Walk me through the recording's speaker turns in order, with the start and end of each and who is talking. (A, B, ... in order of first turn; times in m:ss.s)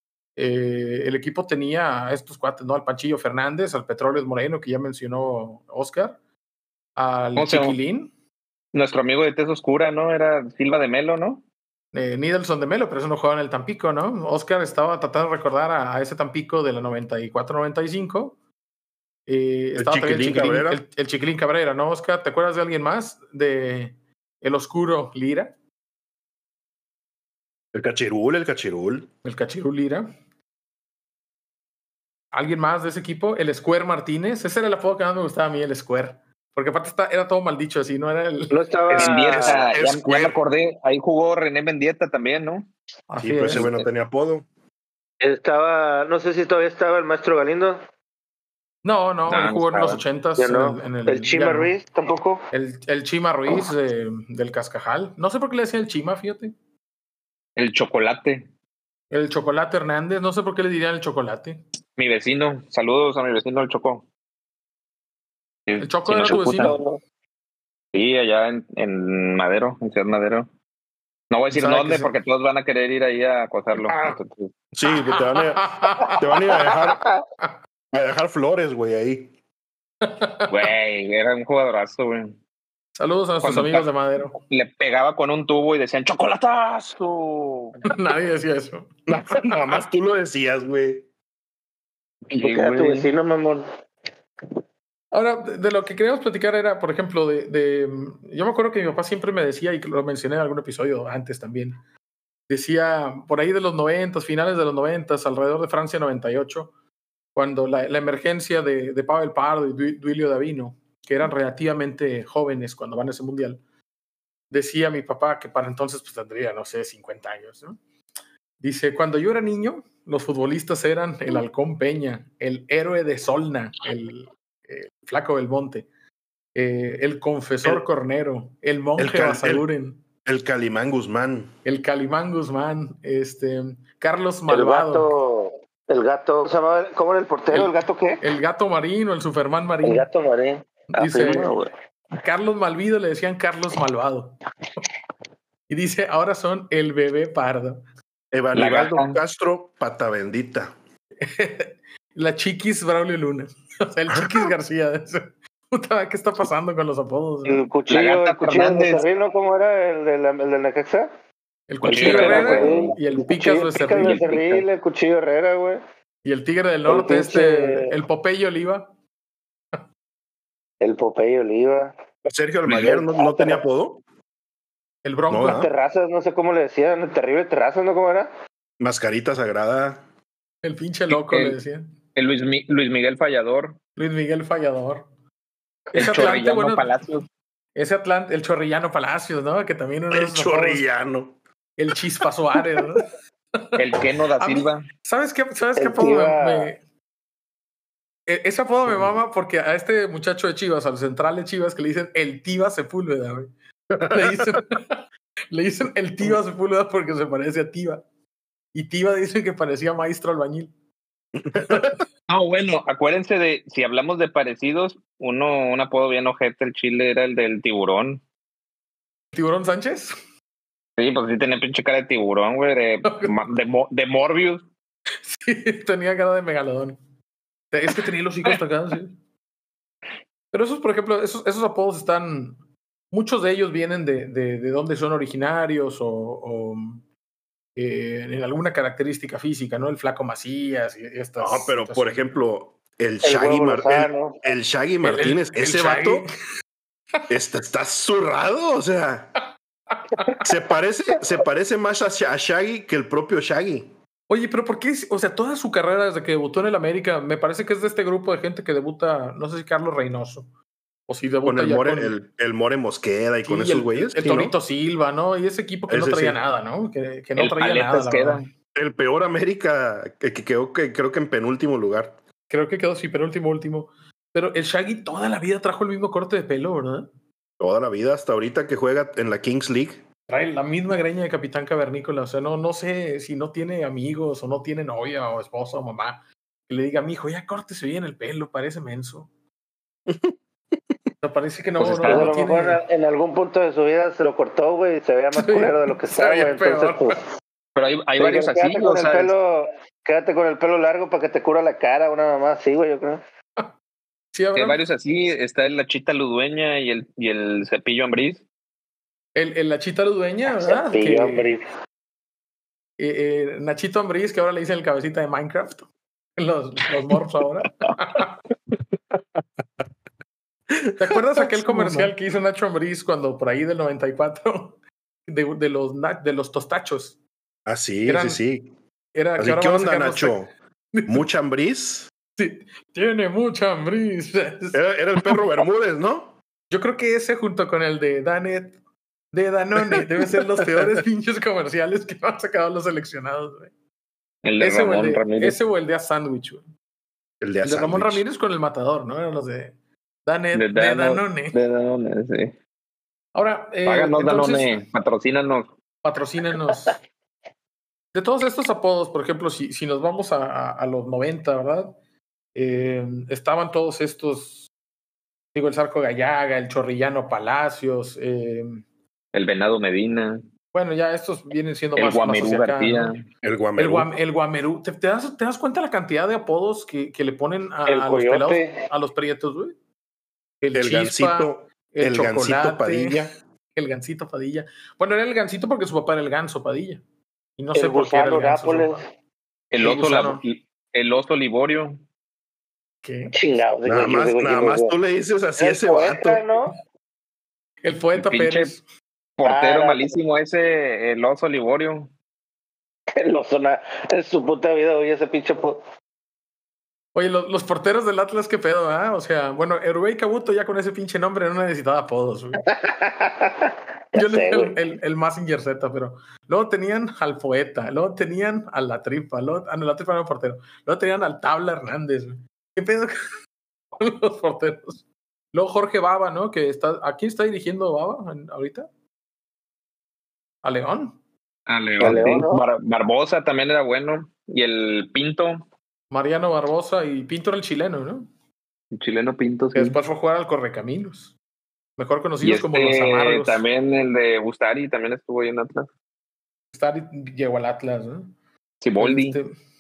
0:00.4-0:06.2 A
0:07.0-0:08.1 A
0:07.4-0:07.8 B
0:08.7-0:11.4 B
0:11.9-0:18.4 A
0:19.3-0:25.5 A
0:19.8-0:20.8 C
0:27.7-0:29.1 C
0:29.2-0:30.1 A
0:32.3-0:38.6 A
0:38.5-0:39.7 D
0:38.9-0:42.7 B
0:39.0-0:40.4 C
0:43.1-0:43.7 A
0:43.2-0:44.5 C
0:43.5-0:43.9 B
0:45.2-0:47.8 D
0:48.8-0:51.7 A
0:49.3-0:50.0 B
0:50.4-0:52.5 D
0:52.5-0:56.5 A
0:57.6-0:58.5 B
0:59.1-1:01.6 A
1:02.0-1:04.0 B
1:05.7-1:06.8 B
1:05.8-1:06.8 A
1:06.3-1:07.0 D
1:07.9-1:10.5 B
1:11.3-1:14.5 B
1:11.5-1:12.1 A
1:14.8-1:17.0 C
1:14.9-1:16.7 A
1:16.6-1:17.0 D
1:17.9-1:19.3 C
1:20.0-1:20.7 A
1:20.5-1:22.4 B
1:23.0-1:24.4 A
1:23.4-1:27.8 B
1:27.8-1:29.6 A
1:29.1-1:31.1 C
1:32.3-1:33.1 B
1:32.4-1:33.7 D
1:35.1-1:41.8 A
1:42.5-1:46.7 A
1:47.4-1:53.6 A
1:54.5-1:57.8 A
1:58.6-2:05.9 A
2:06.6-2:10.0 A
2:09.0-2:09.7 C
2:10.2-2:11.5 C
2:11.6-2:15.1 A
2:14.5-2:18.2 D
2:17.5-2:20.1 A
2:19.8-2:21.7 D
2:20.9-2:21.5 A
2:22.2-2:24.4 A
2:25.7-2:27.8 A
2:28.3-2:30.7 C
2:28.6-2:29.2 B
2:31.2-2:37.6 A
2:34.1-2:34.5 C
2:37.5-2:41.1 D
2:37.9-2:39.0 B
2:41.7-2:44.3 A
2:41.8-2:45.8 D
2:41.9-2:42.9 B
2:43.9-2:44.6 B
2:46.2-2:48.9 A
2:46.9-2:48.0 D
2:50.8-2:51.9 D
2:52.2-2:54.0 C
2:52.7-2:53.6 D
2:55.0-2:55.7 A
2:55.3-2:55.7 C
2:55.4-2:58.3 D
2:58.8-3:00.0 C
3:00.6-3:01.9 A
3:01.1-3:01.6 B
3:02.2-3:03.8 B
3:04.0-3:05.1 A
3:05.9-3:06.9 A
3:05.9-3:07.3 B
3:07.8-3:10.9 A
3:10.1-3:11.4 C
3:11.8-3:13.8 A
3:11.9-3:12.2 C
3:13.8-3:14.8 B
3:14.4-3:16.8 A
3:15.8-3:16.7 D
3:18.3-3:23.5 A
3:18.9-3:19.2 C
3:23.9-3:24.6 C
3:24.1-3:28.0 A
3:28.7-3:30.7 A
3:31.4-3:32.0 C
3:31.6-3:32.0 A
3:32.3-3:38.2 B
3:39.3-3:40.2 A
3:41.0-3:44.6 B
3:43.1-3:43.3 A
3:45.2-3:47.0 A
3:47.7-3:49.2 A
3:50.5-3:52.6 A
3:53.1-3:57.0 A
3:57.8-4:02.3 A
4:01.4-4:06.3 C
4:03.2-4:04.4 D
4:05.0-4:06.3 A
4:07.3-4:09.3 C
4:09.9-4:10.5 A
4:10.4-4:13.9 C
4:14.3-4:20.5 A
4:21.1-4:22.2 A
4:21.4-4:24.5 C
4:23.4-4:28.4 A
4:25.9-4:26.4 C
4:27.4-4:28.5 B
4:28.8-4:32.2 C
4:32.5-4:37.1 A
4:37.6-4:40.0 C
4:40.3-4:49.3 A
4:50.1-4:50.4 C
4:51.2-4:52.8 A
4:51.8-4:52.4 B
4:52.0-4:57.2 D
4:55.3-4:57.2 A
4:57.8-4:59.3 B
4:58.2-5:03.2 D
5:04.3-5:04.8 A
5:04.6-5:08.4 B
5:09.4-5:11.5 A
5:10.5-5:11.6 D
5:13.0-5:18.3 A
5:19.1-5:19.4 C
5:20.7-5:22.1 C
5:21.0-5:27.2 A
5:27.7-5:28.7 C
5:28.1-5:28.4 A
5:29.1-5:30.4 A
5:29.4-5:30.5 C
5:30.9-5:31.3 A
5:31.1-5:32.1 C
5:32.4-5:35.4 A
5:34.7-5:36.4 C
5:36.7-5:38.8 A
5:39.3-5:43.7 A
5:44.4-5:45.6 B
5:44.6-5:46.6 A
5:47.4-5:48.2 C
5:47.6-5:49.7 A
5:50.3-5:51.6 A
5:50.5-5:52.5 B
5:53.4-5:54.7 A
5:53.9-5:55.7 B
5:56.0-5:57.0 A
5:58.1-6:01.9 A
6:02.6-6:04.7 A
6:05.5-6:08.8 A
6:09.3-6:10.4 B
6:10.7-6:13.2 A
6:12.0-6:13.2 B
6:13.4-6:14.1 C
6:13.8-6:19.8 A
6:17.9-6:18.8 D
6:20.6-6:27.0 A
6:20.8-6:23.3 C
6:27.6-6:29.0 A
6:27.7-6:29.0 D
6:29.7-6:32.0 B
6:29.8-6:30.4 A
6:33.0-6:33.3 A
6:33.3-6:34.9 D
6:33.9-6:36.4 C
6:35.6-6:36.8 D
6:37.8-6:38.8 A
6:38.2-6:38.7 B
6:39.4-6:42.1 B
6:39.4-6:40.1 D
6:43.2-6:45.8 D
6:47.2-6:52.6 A
6:52.6-6:54.8 D
6:54.2-7:03.2 A
7:04.0-7:08.9 A
7:10.6-7:11.2 A
7:11.7-7:15.6 B
7:12.0-7:12.6 D
7:16.1-7:18.3 A
7:18.9-7:20.0 B
7:19.7-7:21.3 A
7:22.0-7:23.6 A
7:22.4-7:25.9 B
7:26.7-7:28.3 A
7:28.8-7:29.4 B
7:29.0-7:29.5 A